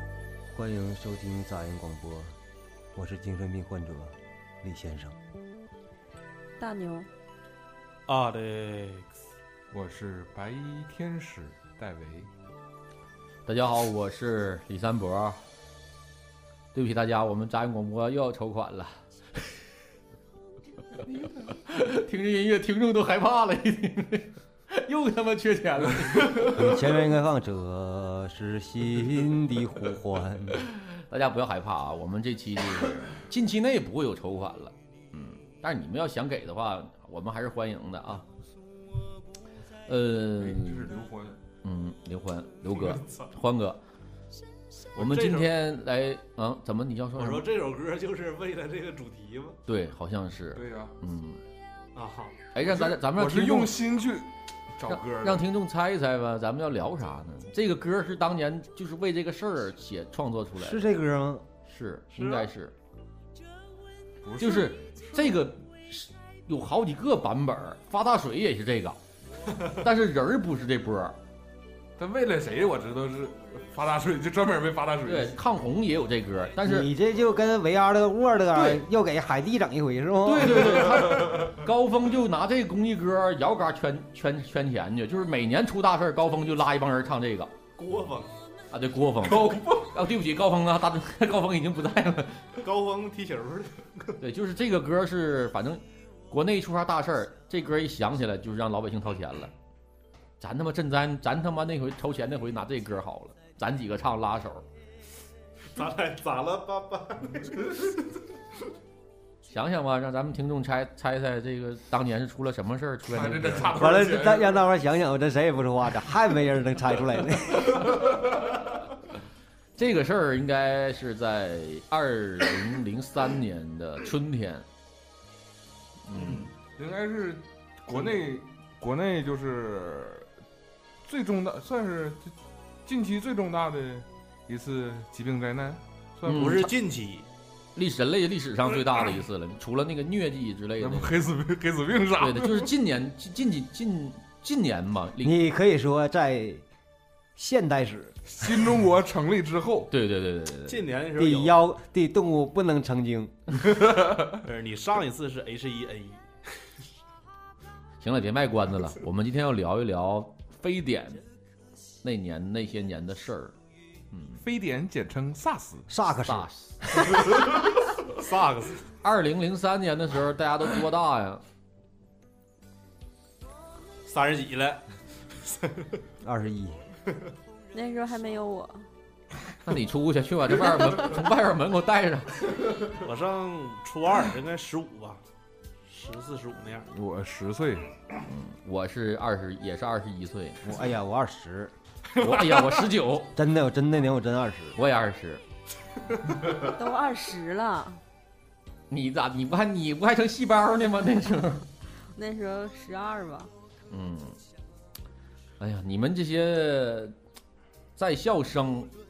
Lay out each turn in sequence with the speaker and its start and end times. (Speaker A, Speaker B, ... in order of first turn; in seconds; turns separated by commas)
Speaker A: 0.5-2.4, Speaker A: 3.0-5.2, Speaker B: 6.6-7.1, Speaker C: 8.1-9.1, Speaker D: 9.7-12.3, Speaker E: 13.5-15.4, Speaker E: 16.7-19.5, Speaker E: 21.0-26.9, Speaker A: 26.4-30.6, Speaker E: 30.7-38.2, Speaker E: 39.9-40.9, Speaker D: 40.4-41.4, Speaker E: 41.6-43.8, Speaker C: 42.7-43.3, Speaker E: 45.0-47.5, Speaker C: 45.0-45.5, Speaker C: 47.1-49.6, Speaker E: 49.7-51.4, Speaker D: 50.5-51.0, Speaker C: 52.0-52.5, Speaker E: 52.5-53.8, Speaker D: 52.6-55.4, Speaker E: 54.9-60.9, Speaker A: 60.6-61.5, Speaker E: 61.6-62.7, Speaker C: 62.1-62.5, Speaker D: 64.2-64.7, Speaker E: 64.4-69.0, Speaker E: 69.6-71.2, Speaker D: 72.0-75.3, Speaker E: 75.0-76.9, Speaker A: 76.6-81.4, Speaker E: 78.5-78.8, Speaker E: 80.2-87.5, Speaker C: 87.8-88.4, Speaker E: 88.7-92.6, Speaker D: 89.4-89.7, Speaker C: 92.6-94.2, Speaker E: 94.2-99.5, Speaker E: 100.4-104.7, Speaker C: 105.7-108.1, Speaker E: 109.5-113.8, Speaker D: 113.1-114.6, Speaker A: 113.7-118.0, Speaker E: 119.8-124.7, Speaker E: 126.0-126.5, Speaker D: 126.8-130.3, Speaker D: 131.0-136.6, Speaker E: 136.3-136.7, Speaker C: 136.3-137.3, Speaker E: 137.8-141.2, Speaker D: 140.8-142.7, Speaker E: 142.2-145.4, Speaker A: 145.2-146.7, Speaker A: 147.4-148.5, Speaker D: 148.3-149.9, Speaker E: 149.9-150.9, Speaker C: 150.7-151.6, Speaker A: 151.2-153.3, Speaker D: 153.7-154.4, Speaker C: 154.4-156.2, Speaker E: 158.0-161.2, Speaker E: 162.0-163.5, Speaker E: 164.1-164.4, Speaker D: 164.4-165.9, Speaker A: 165.9-167.4, Speaker E: 166.2-167.2, Speaker C: 168.1-168.9, Speaker E: 169.0-171.4, Speaker C: 174.1-176.0, Speaker A: 176.2-176.8, Speaker B: 177.7-178.9, Speaker E: 179.6-182.5, Speaker C: 182.9-185.2, Speaker C: 185.9-186.9, Speaker D: 186.9-187.9, Speaker E: 188.3-190.6, Speaker A: 190.6-191.7, Speaker E: 192.2-193.3, Speaker C: 192.2-192.7, Speaker A: 193.4-194.8, Speaker E: 194.8-195.4, Speaker B: 196.6-198.0, Speaker E: 198.9-201.6, Speaker B: 202.2-203.5, Speaker E: 203.9-204.4, Speaker E: 205.6-207.1, Speaker E: 208.0-208.9